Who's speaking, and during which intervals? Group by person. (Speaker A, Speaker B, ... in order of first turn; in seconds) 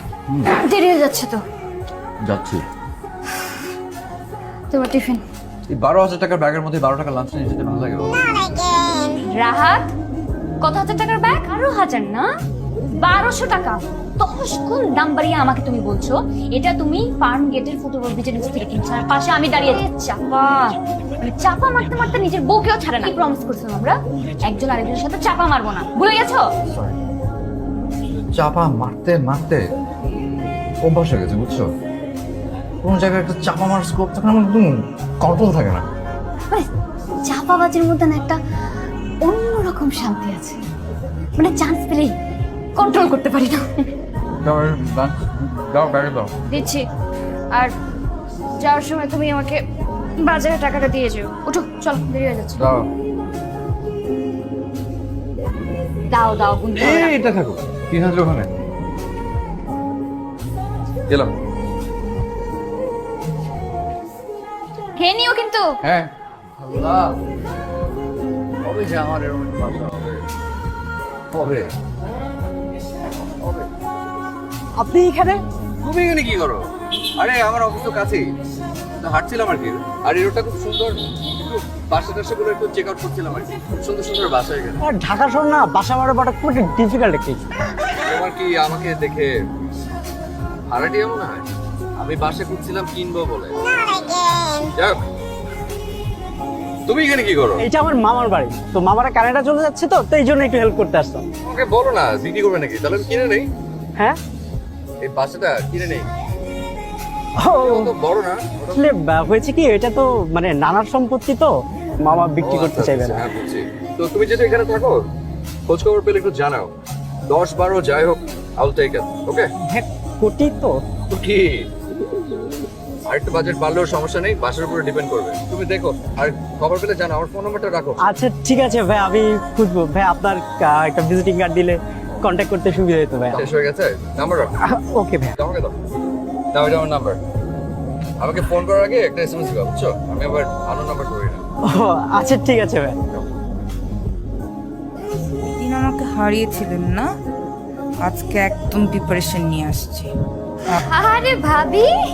Speaker A: 0.6-1.4, 4.7-5.2, 9.3-9.9, 10.6-12.3, 13.0-26.4, 37.2-38.4, 39.2-40.6, 41.4-42.1, 42.8-43.6, 46.5-46.8, 48.6-49.6, 50.2-52.6, 56.1-57.2, 65.0-65.8, 150.7-151.9
Speaker B: 2.3-2.6, 5.7-8.1, 26.7-26.9, 28.3-29.6, 30.8-31.7, 32.8-35.8, 44.4-46.3, 52.6-52.9, 56.7-58.5, 66.6-67.1, 68.6-70.2, 71.3-71.7, 75.8-76.6, 77.2-78.2, 79.0-84.8, 88.0-89.3, 90.7-91.4, 92.0-93.5, 94.8-95.0, 96.9-97.6, 101.5-103.5, 105.0-106.1, 107.6-108.8, 112.4-114.9, 115.7-116.7, 117.3-119.5, 121.1-121.5, 123.1-128.0, 133.3-134.5, 135.4-135.7, 136.5-137.2, 138.2-141.4
Speaker C: 74.8-75.4, 84.8-87.4, 97.6-101.2, 107.4-107.9, 108.7-113.3, 119.7-120.7, 128.0-133.4, 134.6-135.3, 141.7-143.0
Speaker D: 145.6-147.1, 148.0-150.1